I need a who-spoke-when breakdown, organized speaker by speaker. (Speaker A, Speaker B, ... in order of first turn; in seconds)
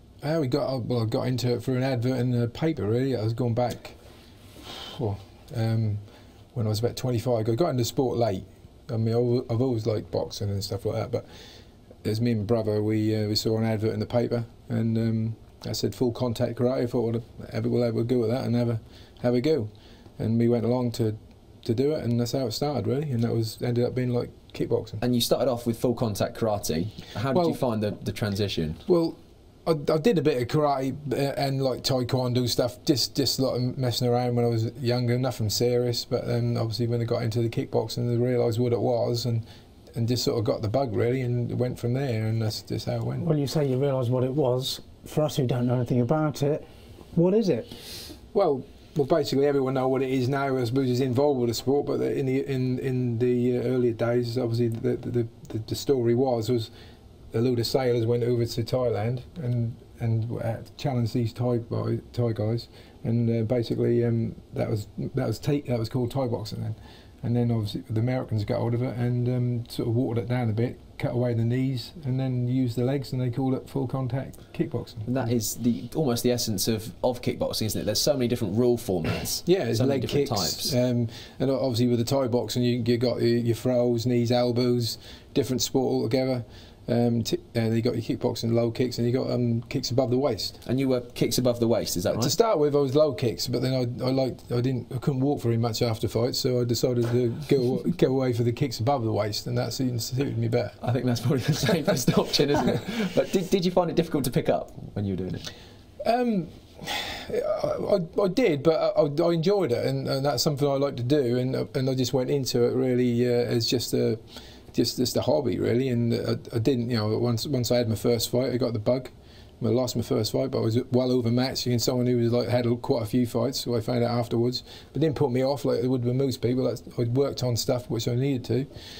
Speaker A: 0.2-4.0, 4.7-6.0, 6.5-11.2, 12.0-25.0, 27.3-27.6, 28.9-43.3, 48.3-56.7, 57.3-75.1, 79.4-90.6, 92.1-100.8, 106.0-128.7
Speaker B: 25.0-28.8, 75.0-80.7, 90.6-92.3, 100.8-105.5
Speaker C: 43.2-47.7